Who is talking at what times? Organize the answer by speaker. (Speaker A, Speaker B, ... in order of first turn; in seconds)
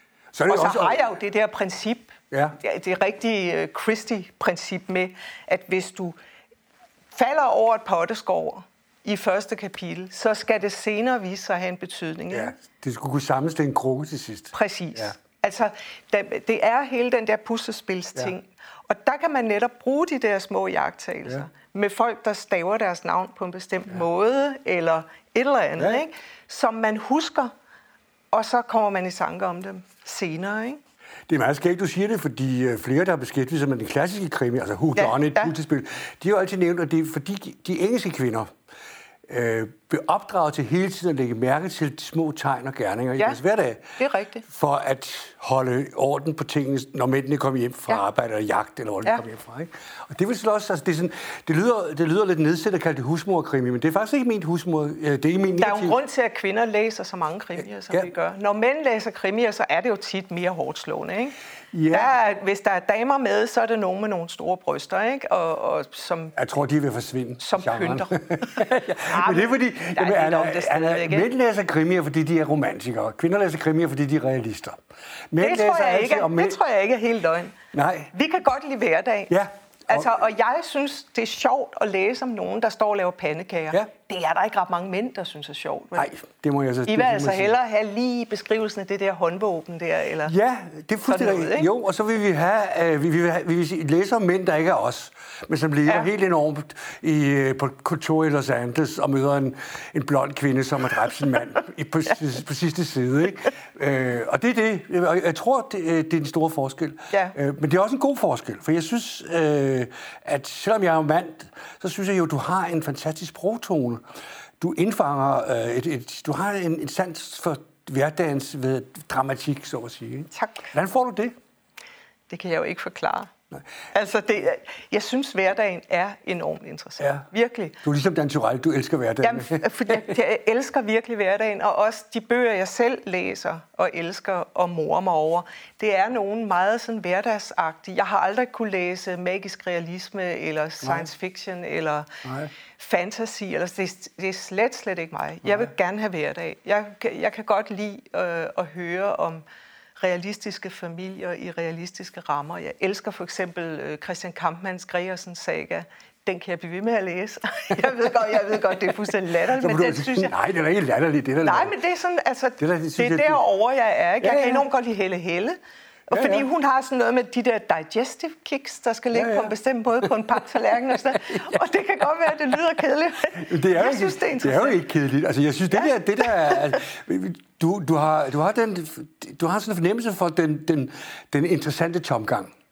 Speaker A: 0.3-1.0, 2.3-2.6, 12.3-15.1, 31.3-38.5, 39.3-56.0, 61.7-62.1, 66.4-74.8, 75.3-76.6, 77.7-78.1, 79.3-80.1, 86.0-87.5, 90.2-114.0, 114.6-121.3, 127.0-127.2, 127.8-130.1, 140.8-141.1, 142.2-142.5, 159.5-161.7, 162.6-163.4, 164.2-164.7, 166.1-166.5, 169.1-169.5, 171.3-171.6, 173.3-182.5
Speaker B: 0.5-6.2, 7.1-12.5, 14.5-27.5, 28.3-30.8, 35.0-35.5, 44.0-44.4, 55.6-61.4, 61.9-66.4, 67.4-71.3, 75.4-77.6, 78.1-86.1, 86.9-90.3, 91.1-91.7, 120.3-120.7, 122.3-123.3, 123.9-127.8, 129.2-142.2, 142.8-149.4, 150.0-160.4, 161.4-165.6, 166.1-174.8, 175.7-176.8